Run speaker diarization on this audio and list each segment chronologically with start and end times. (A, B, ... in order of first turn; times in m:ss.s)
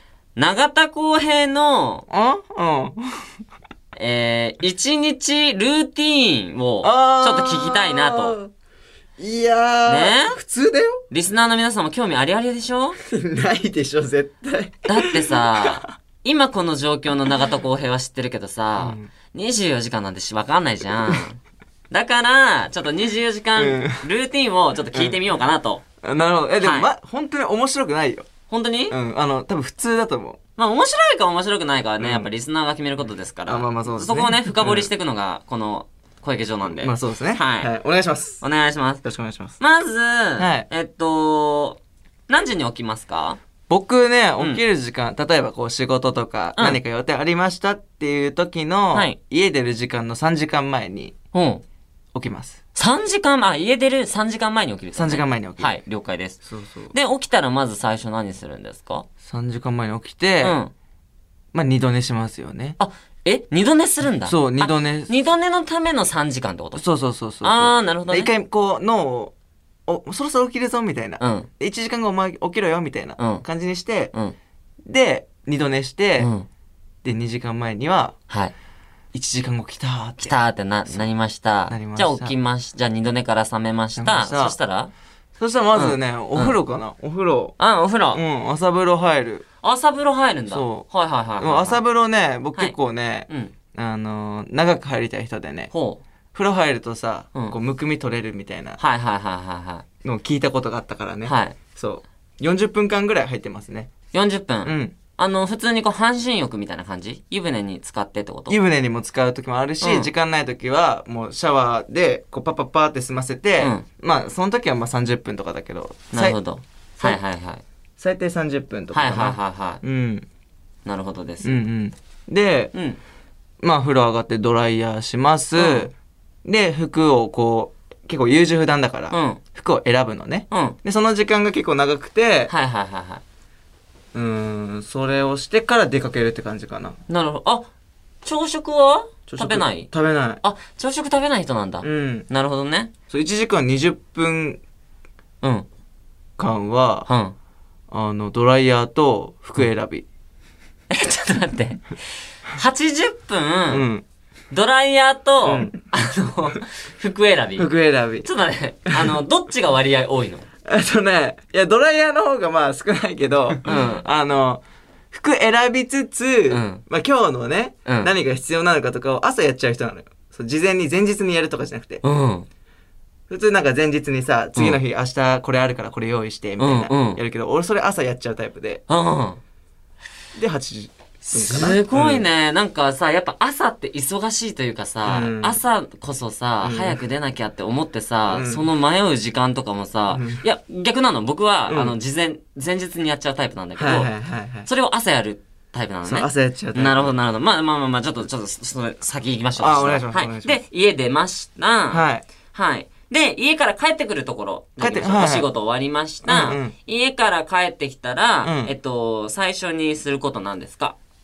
0:00.4-0:02.0 A
0:02.1-0:03.3 B
0:03.9-0:08.4 A
0:06.8-0:08.5 B
0:09.2-0:11.0 B
0:09.8-0:10.4 A
0:11.1-0:13.0 A
0:13.0-0:15.9 B
0:14.9-0:21.4 A
0:18.8-0:19.1 B
0:21.9-0:25.8 A
0:23.6-0:24.0 B
0:26.0-0:28.3 B
0:26.6-0:26.9 A
0:28.5-0:29.0 A
0:28.9-0:30.4 B
0:30.6-0:37.7 A
0:32.0-0:32.3 B
0:33.5-0:34.9 B
0:36.8-0:38.4 B
0:38.4-0:39.0 A
0:39.0-0:39.6 B
0:39.6-0:43.4 A
0:40.4-0:40.7 B
0:43.7-0:51.1 B
0:51.3-0:51.6 A
0:52.1-0:52.6 B
0:52.8-0:56.4 A
0:54.9-0:55.8 B
0:56.4-0:56.9 B
0:56.9-0:59.1 A
0:59.2-1:00.6 B
1:00.4-1:00.7 A
1:01.5-1:02.8 B
1:02.8-1:06.8 A
1:04.2-1:05.1 B
1:06.7-1:09.3 B
1:07.4-1:08.3 A
1:09.9-1:14.1 B
1:11.2-1:11.5 A
1:13.2-1:13.4 A
1:14.8-1:16.3 B
1:16.2-1:16.5 A
1:17.0-1:18.1 B
1:19.1-1:20.3 B
1:20.2-1:24.9 A
1:21.7-1:22.3 B
1:24.0-1:24.5 B
1:25.4-1:27.5 B
1:25.7-1:26.6 A
1:27.6-1:28.2 A
1:28.1-1:29.4 B
1:29.6-1:31.8 A
1:30.5-1:30.8 B
1:31.4-1:35.7 B
1:35.7-1:36.0 A
1:36.3-1:38.8 B
1:38.8-1:39.8 A
1:40.0-1:43.9 B
1:41.2-1:41.6 A
1:44.1-1:48.6 A
1:44.6-1:45.0 B
1:48.5-1:56.4 B
1:49.8-1:50.1 A
1:53.6-1:53.8 A
1:56.1-1:57.6 A
1:58.0-2:00.3 B
1:58.9-1:59.8 A
2:00.8-2:01.6 A
2:01.4-2:02.7 B
2:02.7-2:03.0 A
2:03.6-2:05.9 B
2:05.6-2:05.9 A
2:06.4-2:12.5 B
2:09.1-2:09.4 A
2:10.5-2:10.8 A
2:12.5-2:13.2 A
2:14.1-2:17.0 B
2:17.1-2:17.7 A
2:18.2-2:19.9 A
2:19.3-2:20.4 B
2:20.4-2:22.9 A
2:21.8-2:22.3 B
2:23.1-2:24.6 B
2:26.4-2:27.1 B
2:27.1-2:27.3 A
2:27.9-2:30.0 B
2:30.9-2:31.8 A
2:32.5-2:33.9 A
2:33.7-2:34.0 B
2:34.5-2:37.7 A
2:35.4-2:35.8 B
2:37.6-2:38.3 B
2:38.2-2:40.4 A
2:40.6-2:52.0 B
2:43.6-2:44.0 A
2:46.5-2:46.8 A
2:47.8-2:48.1 A
2:52.0-2:52.5 A
2:53.3-2:58.8 B
2:54.6-2:54.8 A
2:56.6-2:57.2 A
2:58.9-2:59.4 A
3:00.3-3:02.2 B
3:01.3-3:14.1 A
3:05.0-3:05.6 B
3:06.6-3:07.0 B
3:08.3-3:08.6 B
3:10.1-3:10.4 B
3:11.7-3:11.9 B
3:13.8-3:14.7 B
3:14.6-3:31.0 A
3:16.0-3:17.1 B
3:19.6-3:20.6 B
3:21.9-3:22.2 B
3:24.8-3:25.5 B
3:26.2-3:26.7 B
3:28.4-3:28.7 B